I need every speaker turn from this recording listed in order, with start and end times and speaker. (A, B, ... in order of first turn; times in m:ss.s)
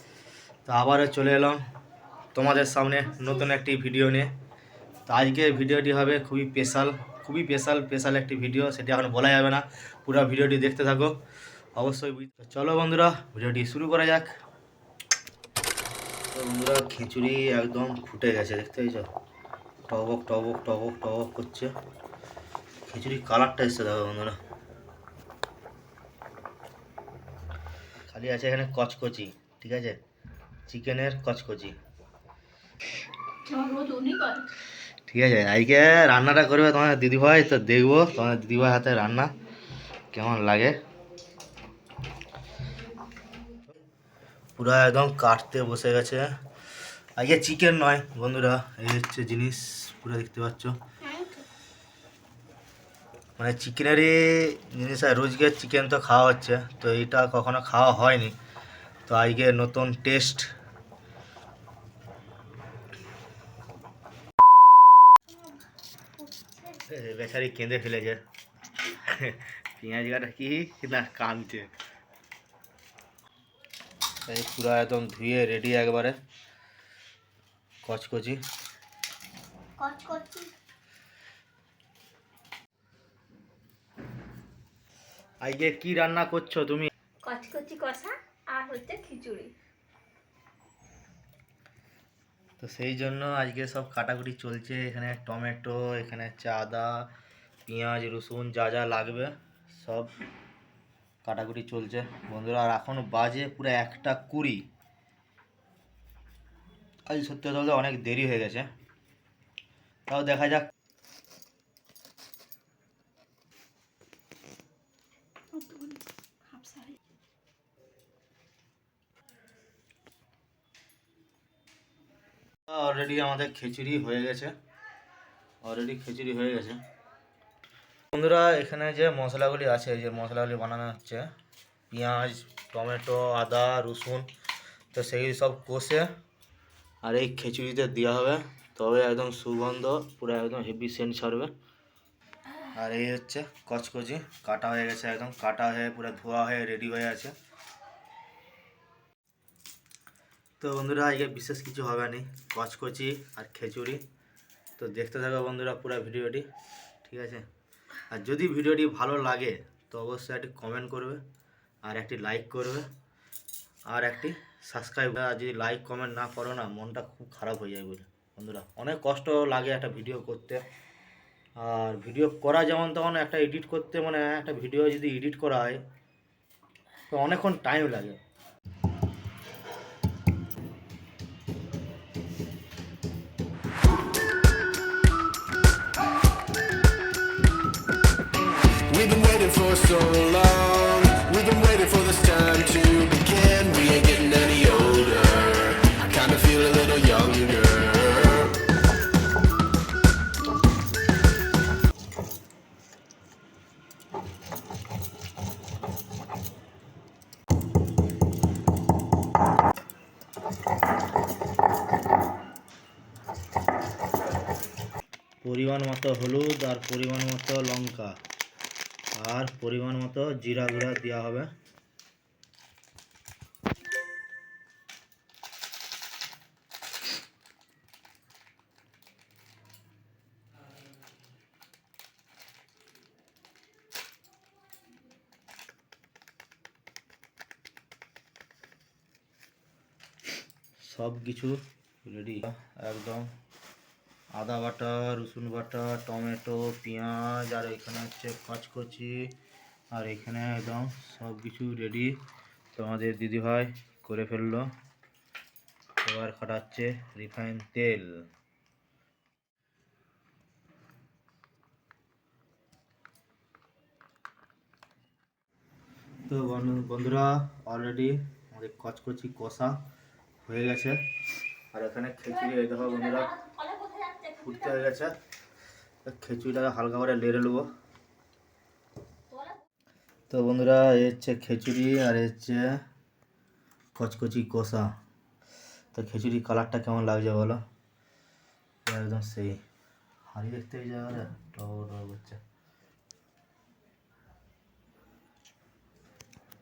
0:00.6-0:01.6 A
0:02.3-0:04.3 A
0:05.0-0:11.2 A
0:11.8-0:14.3 A
0:16.3-0:19.1 A
0:19.9-0:21.7 A
0:22.8-0:24.4 A
0:28.1-0:30.0 A
0:30.7-0:31.8 A
0:33.4-0:34.5 B
0:35.1-0:39.3 A
0:40.1-0:40.8 A
0:44.6-0:46.3 A
0:47.2-0:50.8 A
0:51.0-0:51.3 B
0:53.4-0:58.4 A
0:59.0-1:00.5 A
1:06.2-1:06.7 B
1:06.9-1:08.2 A
1:08.8-1:11.7 A
1:14.3-1:16.2 A
1:17.8-1:18.4 A
1:19.8-1:20.5 B
1:25.4-1:26.9 A
1:27.2-1:29.5 B
1:32.6-1:37.1 A
1:37.6-1:40.1 A
1:41.2-1:44.7 A
1:47.1-1:48.7 A
1:50.1-1:50.7 A
1:55.6-1:57.0 B
2:02.7-2:04.5 A
2:05.6-2:06.8 A
2:08.1-2:11.3 A
2:11.9-2:14.3 A
2:14.9-2:16.1 A
2:17.0-2:21.5 A
2:22.7-2:27.3 A
2:30.6-2:34.0 A
2:34.8-2:36.5 A
2:37.0-2:37.4 A
2:38.1-2:41.2 A
2:41.8-2:42.9 A
2:43.9-2:50.6 A
2:51.6-2:55.8 A
2:57.1-2:58.2 A
3:08.9-3:18.5 C
3:35.4-3:38.2 A
3:39.1-3:41.5 A
4:00.8-4:03.3 A
4:04.3-4:09.3 A
4:09.9-4:12.2 A
4:12.7-4:14.7 A
4:16.0-4:18.3 A
4:26.3-4:29.8 A
4:30.4-4:31.0 A
4:31.7-4:33.4 A
4:33.4-4:34.3 B
4:34.3-4:35.2 A
4:36.0-4:37.7 A
4:40.3-4:42.8 A
4:43.9-4:44.9 A
4:45.9-4:47.6 A
4:48.8-4:49.6 A
4:50.3-4:52.4 A